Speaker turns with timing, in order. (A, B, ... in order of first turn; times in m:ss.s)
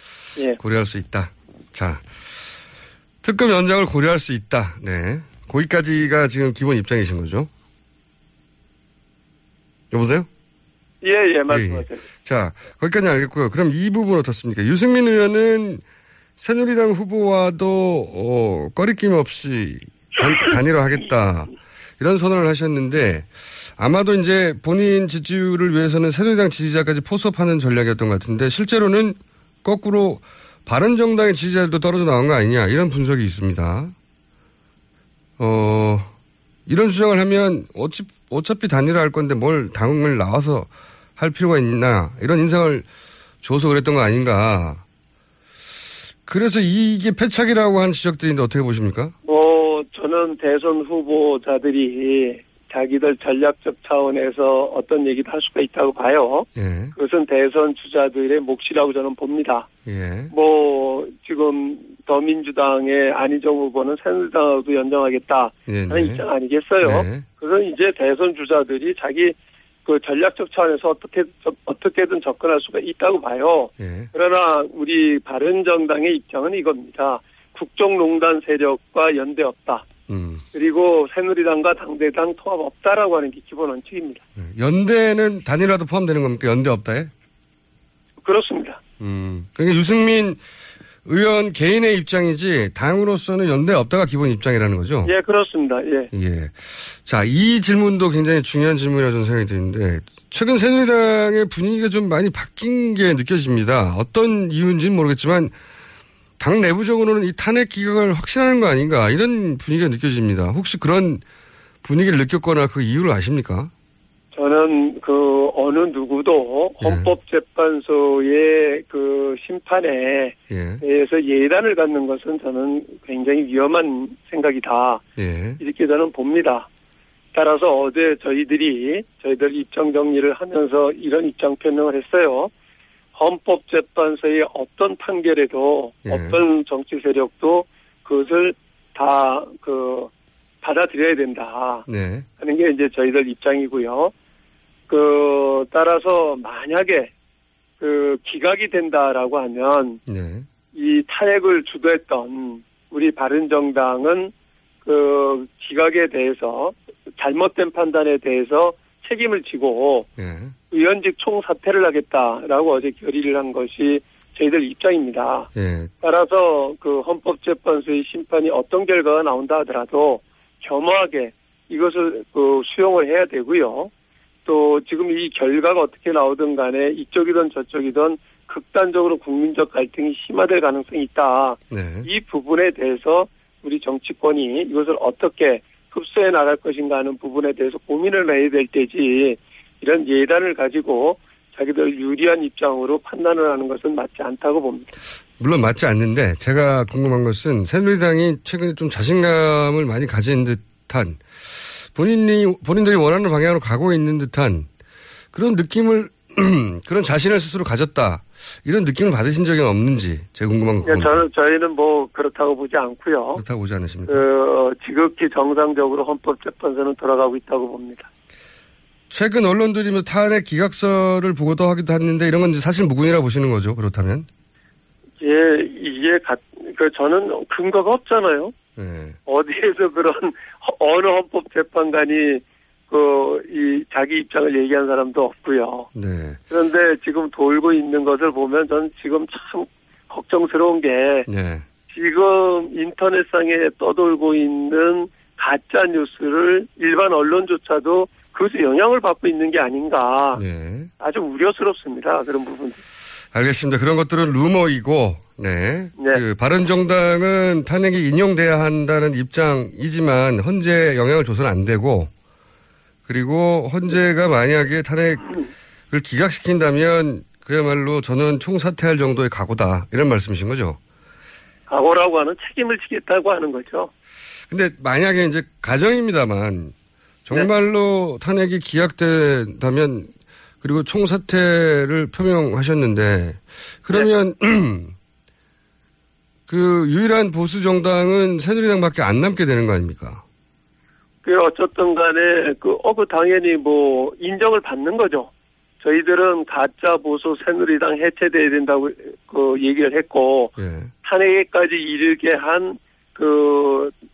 0:00.6-0:02.4 A
0:03.2-0:07.5 A
0:09.9-0:10.3 A
0:11.0-0:12.0 B
0:11.5-0:15.8 A
0:16.4-0:33.9 A
0:35.4-0:36.1 A
0:36.6-0:42.8 A
0:43.4-0:44.8 A
0:46.2-0:49.1 A
0:49.2-0:59.7 B
0:56.6-0:56.9 A
0:59.8-1:00.3 A
1:00.3-1:19.9 B
1:05.7-1:06.2 A
1:06.8-1:07.2 A
1:13.8-1:14.1 A
1:20.1-1:20.4 A
1:20.5-1:24.2 B
1:24.4-1:27.1 A
1:28.2-1:28.8 B
1:29.0-1:30.4 A
1:31.0-1:35.1 A
1:35.0-1:36.1 B
1:36.1-1:45.5 A
1:46.4-1:51.2 A
1:51.8-1:53.7 A
1:54.3-2:05.0 B
1:56.8-1:57.1 A
2:00.5-2:00.8 A
2:05.2-2:05.6 A
2:05.6-2:06.6 B
2:07.3-2:12.5 B
2:13.1-2:20.1 B
2:16.0-2:16.4 A
2:20.6-2:21.8 B
2:21.9-2:22.3 A
2:22.4-2:24.1 B
2:24.9-2:27.1 B
2:27.8-2:30.0 B
2:30.0-2:30.5 A
2:30.7-2:34.3 B
2:34.8-2:40.1 B
2:40.2-2:40.5 A
2:40.7-2:45.5 B
2:45.5-2:45.9 A
2:46.0-2:53.9 B
2:54.4-3:14.9 B
3:01.7-3:02.1 A
3:15.4-3:24.7 A
3:25.3-3:31.2 A
3:30.8-3:33.4 B
3:33.4-3:34.2 A
3:34.1-3:38.1 B
3:39.1-3:44.3 A
3:45.2-3:48.5 B
3:48.8-3:49.2 A
3:49.3-3:55.9 B
3:55.9-3:56.4 A
3:56.5-4:01.3 B
4:01.3-4:01.6 A
4:01.9-4:10.4 B
4:10.3-4:10.9 A
4:11.0-4:12.8 B
4:13.3-4:22.1 A
4:23.1-4:25.3 A
4:25.9-4:30.8 A
4:31.7-4:33.9 B
4:34.5-4:36.7 A
4:37.2-4:40.1 A
4:40.6-4:44.9 A
4:46.5-4:50.2 A
4:51.2-4:55.3 B
4:55.8-5:03.9 B
5:00.6-5:00.9 A